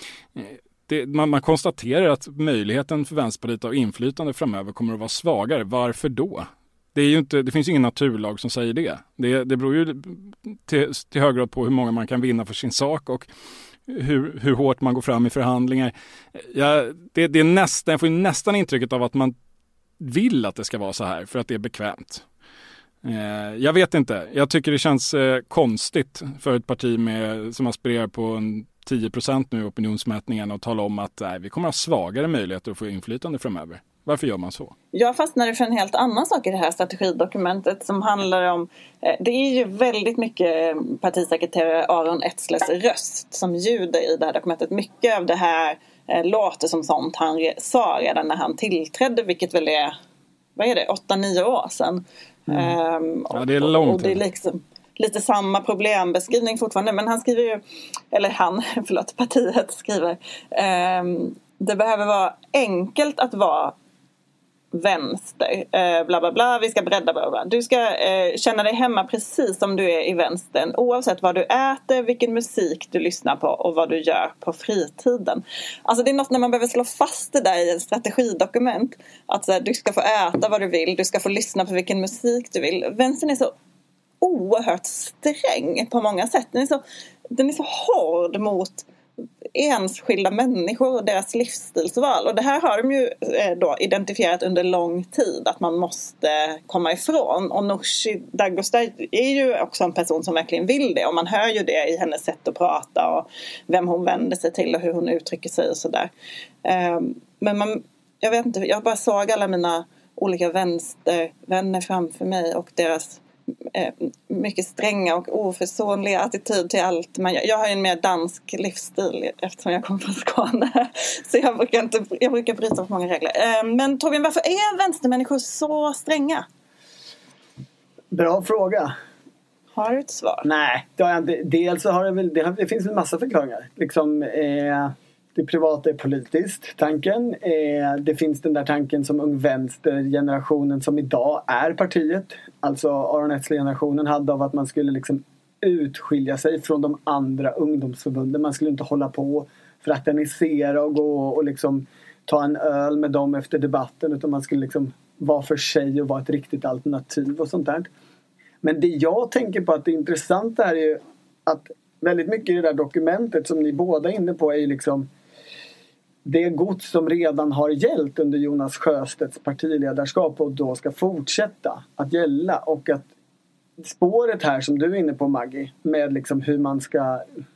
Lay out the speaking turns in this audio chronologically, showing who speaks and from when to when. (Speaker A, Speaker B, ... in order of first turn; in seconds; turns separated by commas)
Speaker A: 0.4-13.3, Speaker A: 13.9-19.4, Speaker A: 20.0-22.2, Speaker A: 23.0-34.7, Speaker B: 34.9-50.0, Speaker B: 50.6-63.8, Speaker A: 53.3-54.2, Speaker B: 64.7-83.5, Speaker B: 84.2-88.9, Speaker B: 89.5-106.1, Speaker B: 106.6-126.5, Speaker C: 128.1-128.9, Speaker B: 129.8-130.5, Speaker C: 130.4-157.9, Speaker C: 158.6-165.1, Speaker C: 166.2-173.1, Speaker C: 173.8-177.3